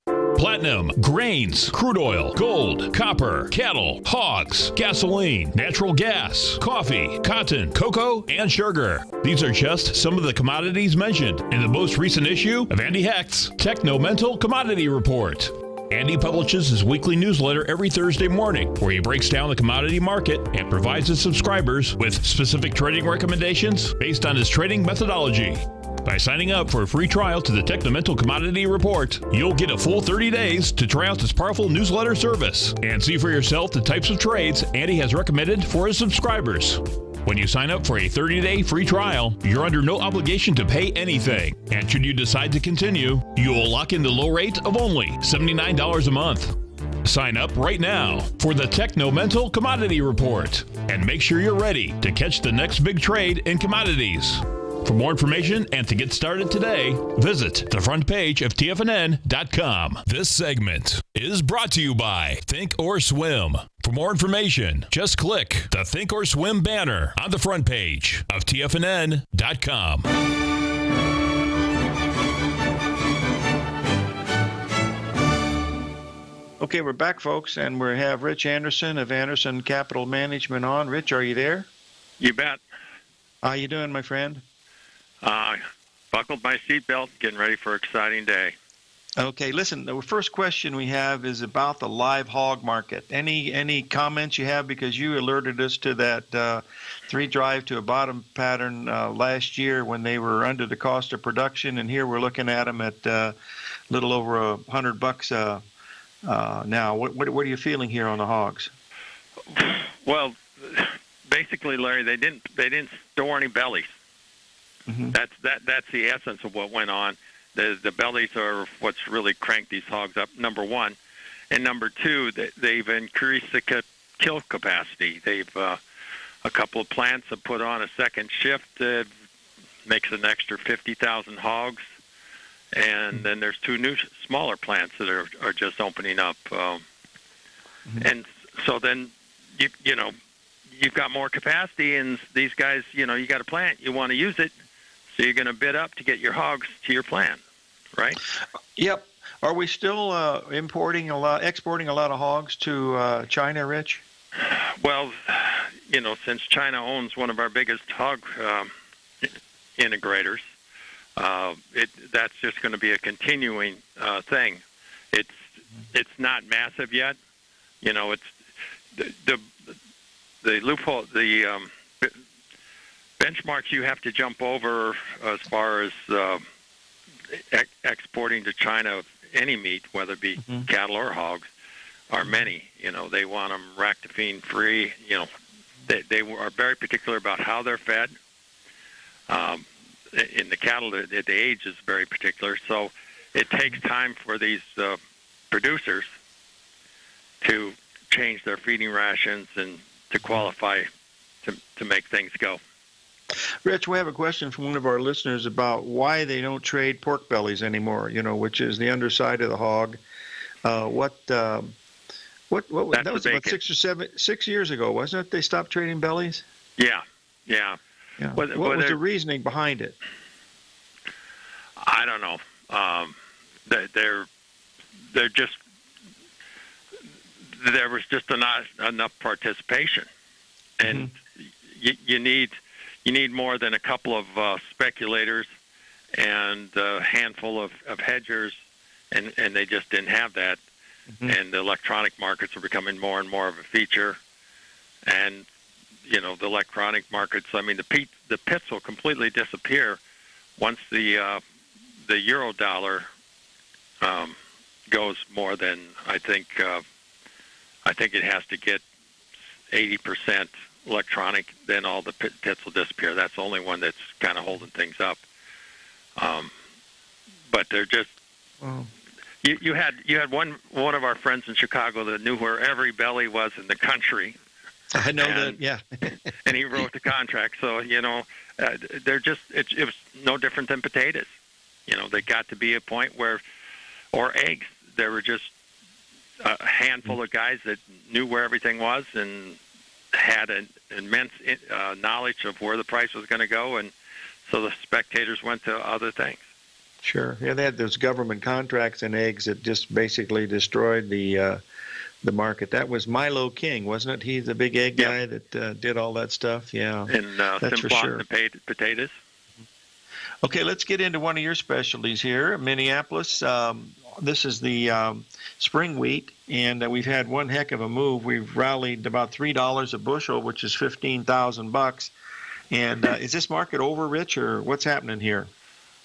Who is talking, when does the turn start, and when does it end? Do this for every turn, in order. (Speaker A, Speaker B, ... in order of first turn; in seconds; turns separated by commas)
Speaker A: 0.3-70.1, Speaker B: 76.6-81.7, Speaker C: 82.2-82.6, Speaker B: 83.4-84.4, Speaker C: 85.2-88.5, Speaker B: 89.2-103.3, Speaker B: 103.9-105.6, Speaker B: 106.2-108.7, Speaker C: 109.5-113.9, Speaker B: 114.9-115.2, Speaker C: 115.1-121.0, Speaker C: 121.5-125.8, Speaker C: 126.4-129.1, Speaker C: 129.8-131.8, Speaker C: 132.7-136.8, Speaker C: 138.0-140.2, Speaker C: 140.7-144.5, Speaker C: 145.1-147.4, Speaker B: 148.8-154.0, Speaker C: 154.4-158.7, Speaker C: 159.8-160.4, Speaker C: 161.2-167.2, Speaker C: 167.8-168.3, Speaker C: 168.9-169.5, Speaker C: 170.4-172.1, Speaker C: 173.2-176.4, Speaker C: 177.3-181.5, Speaker C: 182.1-185.3, Speaker C: 185.9-188.1, Speaker C: 189.3-195.0, Speaker C: 195.5-196.1, Speaker C: 197.4-200.9, Speaker C: 201.4-202.6, Speaker B: 203.6-210.0, Speaker B: 210.6-211.7, Speaker B: 212.5-216.4, Speaker C: 212.9-213.6, Speaker C: 216.8-217.8, Speaker B: 218.2-219.9, Speaker C: 218.3-219.0, Speaker C: 221.8-224.3, Speaker C: 225.1-225.6, Speaker C: 227.5-230.1, Speaker C: 230.8-235.5, Speaker B: 230.8-231.1, Speaker C: 236.1-238.6, Speaker C: 239.1-240.6, Speaker C: 241.2-244.2, Speaker C: 245.1-245.4, Speaker C: 246.0-250.0, Speaker C: 250.6-251.4, Speaker C: 252.0-253.1, Speaker C: 254.0-256.8, Speaker C: 257.8-258.8, Speaker C: 259.7-265.2, Speaker C: 266.2-266.5, Speaker C: 267.5-268.1, Speaker B: 268.6-268.9, Speaker C: 269.4-274.4, Speaker B: 274.9-276.1, Speaker C: 275.2-275.6, Speaker C: 276.4-281.3, Speaker C: 281.9-283.4, Speaker C: 284.1-285.5, Speaker C: 286.4-289.6, Speaker C: 290.1-293.9, Speaker C: 294.5-296.4, Speaker B: 297.0-301.6, Speaker B: 302.2-308.2, Speaker C: 307.1-309.1, Speaker B: 310.4-322.1, Speaker B: 322.7-325.5